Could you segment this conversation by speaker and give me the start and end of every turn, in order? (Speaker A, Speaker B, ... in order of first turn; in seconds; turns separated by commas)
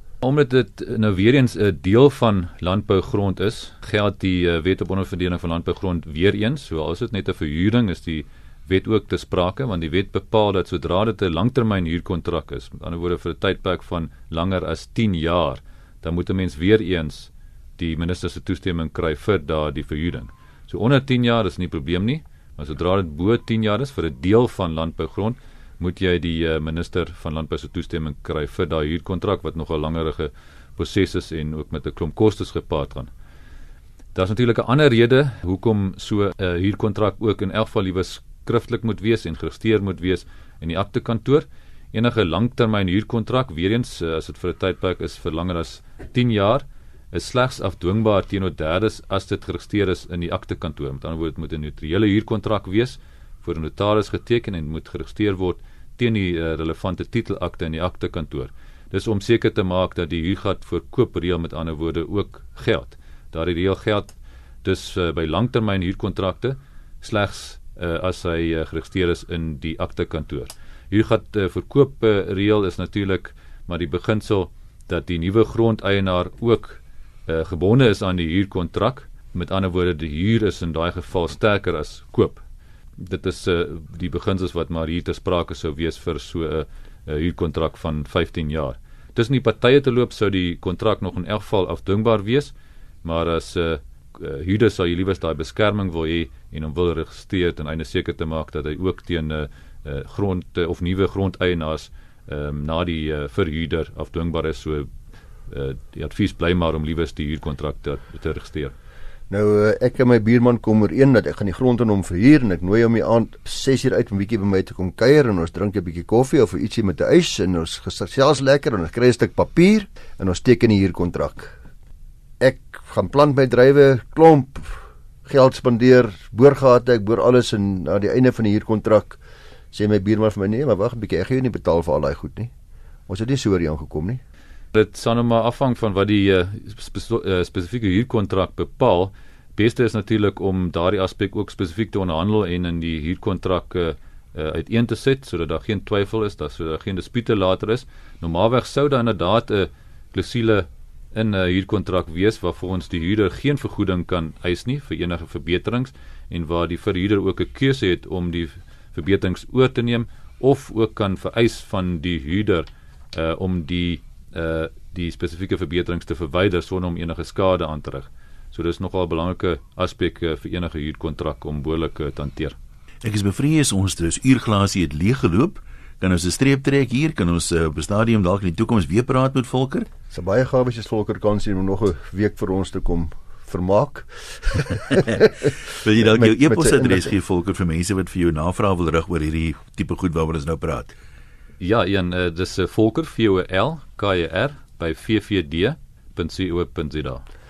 Speaker A: 0.2-33.1, Speaker A: 34.1-82.4, Speaker A: 83.0-92.5, Speaker A: 93.0-104.9, Speaker A: 105.5-108.7, Speaker B: 109.3-121.6, Speaker B: 122.4-129.2, Speaker B: 129.7-132.5, Speaker B: 133.1-134.2, Speaker A: 134.7-172.6, Speaker C: 173.0-179.9, Speaker B: 180.1-185.5, Speaker C: 184.9-190.9, Speaker B: 186.0-187.1, Speaker A: 191.6-197.2